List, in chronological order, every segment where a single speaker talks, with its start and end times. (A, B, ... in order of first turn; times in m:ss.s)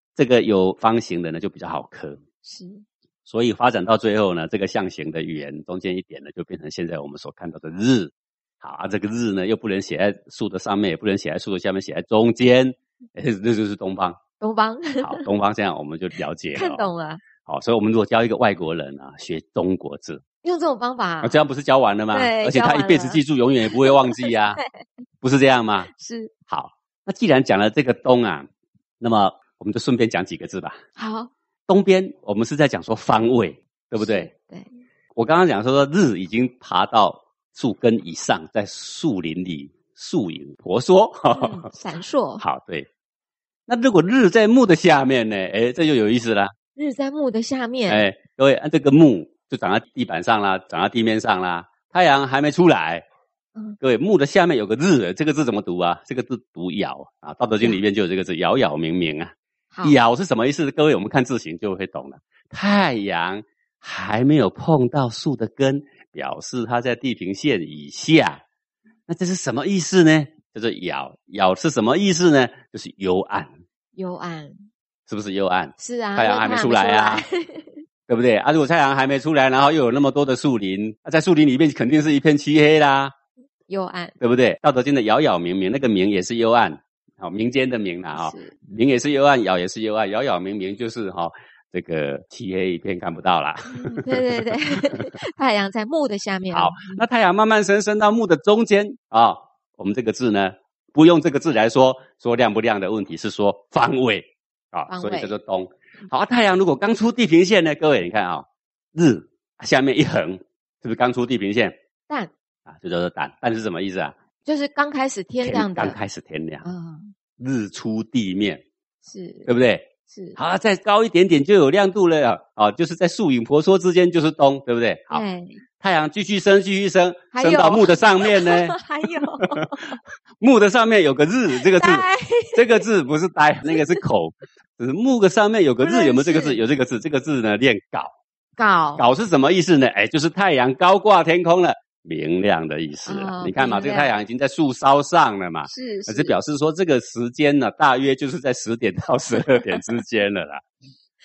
0:00.2-0:02.2 A
0:02.4-0:02.8 B
0:03.2-0:14.2 A
0:14.4-0:15.2 B
0:15.0-0:16.9 A
0:16.5-0:17.2 B
0:17.4-0:20.2 A
0:20.4-0:21.4 B
0:21.2-0:24.6 A
0:22.1-0:24.7 B
0:25.2-0:25.9 A
0:25.9-0:26.3 B
0:26.5-0:28.5 A
0:29.0-0:30.8 A
0:31.0-0:31.3 B
0:31.7-0:34.3 A
0:34.0-0:34.7 B
0:35.1-0:41.7 A
0:41.3-0:42.4 B
0:42.4-0:42.9 A
0:43.7-0:46.5 A
0:46.8-0:48.0 B
0:47.9-0:53.0 A
0:53.8-1:08.4 A
0:59.7-1:00.0 B
1:09.1-1:13.5 A
1:13.9-1:14.6 B
1:15.1-1:17.2 A
1:15.8-1:17.8 B
1:18.1-1:23.1 A
1:23.7-1:24.2 B
1:24.2-1:35.1 A
1:28.1-1:28.6 B
1:33.7-1:37.0 B
1:36.5-1:51.7 A
1:44.9-1:45.3 B
1:52.7-1:54.1 A
1:54.4-1:56.0 B
1:55.4-1:56.7 A
1:56.6-1:57.1 B
1:57.4-1:58.6 A
1:59.0-1:59.5 B
1:59.4-2:05.2 A
2:00.1-2:00.4 B
2:05.1-2:05.6 B
2:05.8-2:08.8 A
2:07.3-2:10.0 B
2:09.4-2:09.9 A
2:10.4-2:18.1 A
2:11.6-2:12.8 B
2:13.6-2:14.0 B
2:15.8-2:16.6 B
2:18.6-2:19.0 B
2:19.0-2:30.6 A
2:23.0-2:24.1 B
2:25.7-2:26.4 B
2:29.4-2:30.0 B